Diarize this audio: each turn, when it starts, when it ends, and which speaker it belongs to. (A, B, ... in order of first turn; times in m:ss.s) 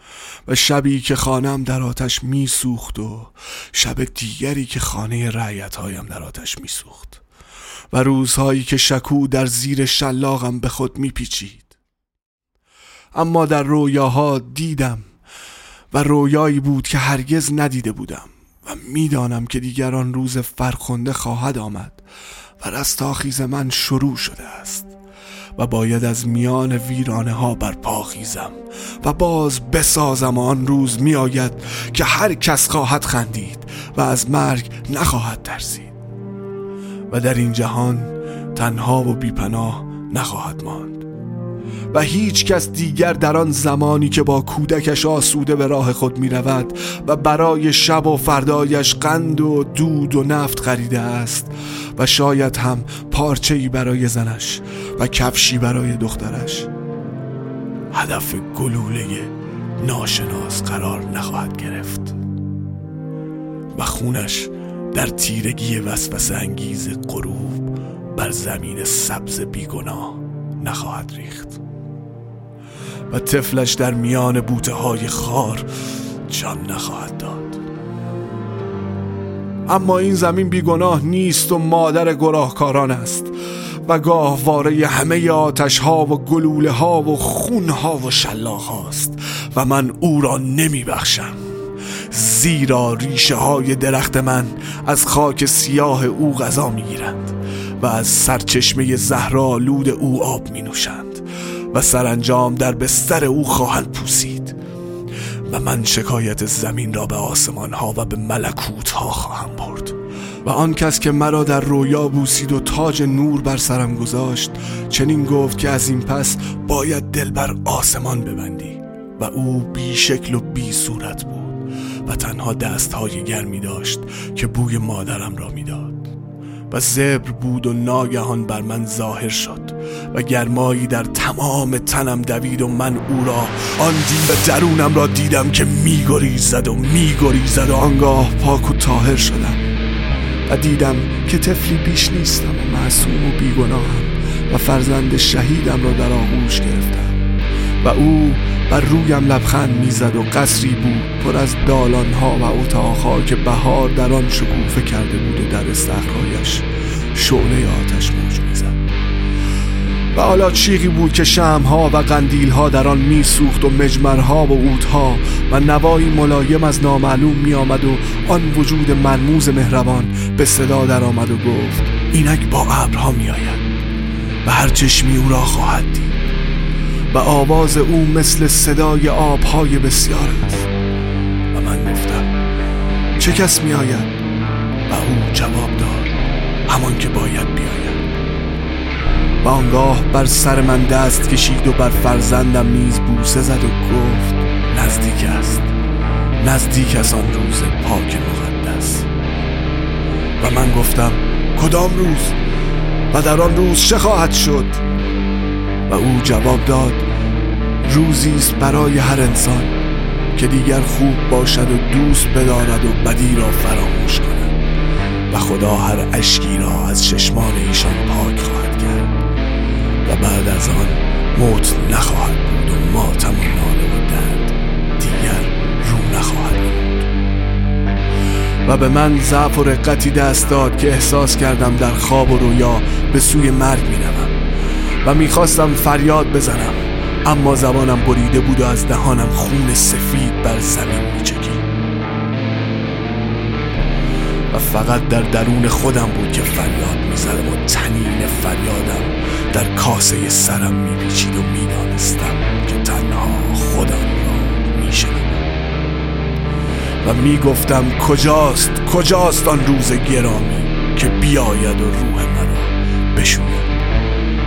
0:00.4-0:07.2 A
0:07.9-0:11.8 A
0:13.1-0:15.1 A
0:15.9-0:22.0 A
0:22.6-0:24.9 A
0:25.6-0:36.0 A
0:37.1-0:41.0 A
0:41.9-0:56.7 A
0:57.9-1:02.2 A
1:03.7-1:11.6 A
1:13.1-1:15.7 A
1:16.3-1:17.6 A
1:19.6-1:31.4 A
1:32.1-1:44.6 A
1:45.5-2:06.1 A
2:06.7-2:19.6 A
2:20.5-2:27.2 A
2:27.8-2:38.8 A
2:40.1-2:53.6 A
2:54.4-2:56.2 A
2:57.1-3:00.7 A
3:01.5-3:02.3 A
3:03.2-3:04.2 A
3:04.9-3:06.1 A
3:06.7-3:08.0 A
3:09.4-3:15.7 A
3:16.4-3:19.1 A
3:20.4-3:22.4 A
3:23.1-3:24.8 A
3:25.9-3:27.1 A
3:27.8-3:29.8 A
3:30.3-3:34.6 A
3:35.3-3:39.2 A
3:40.0-3:47.1 A
3:48.6-3:54.4 A
3:55.0-4:01.6 A
4:04.5-4:15.5 A
4:17.0-4:23.7 A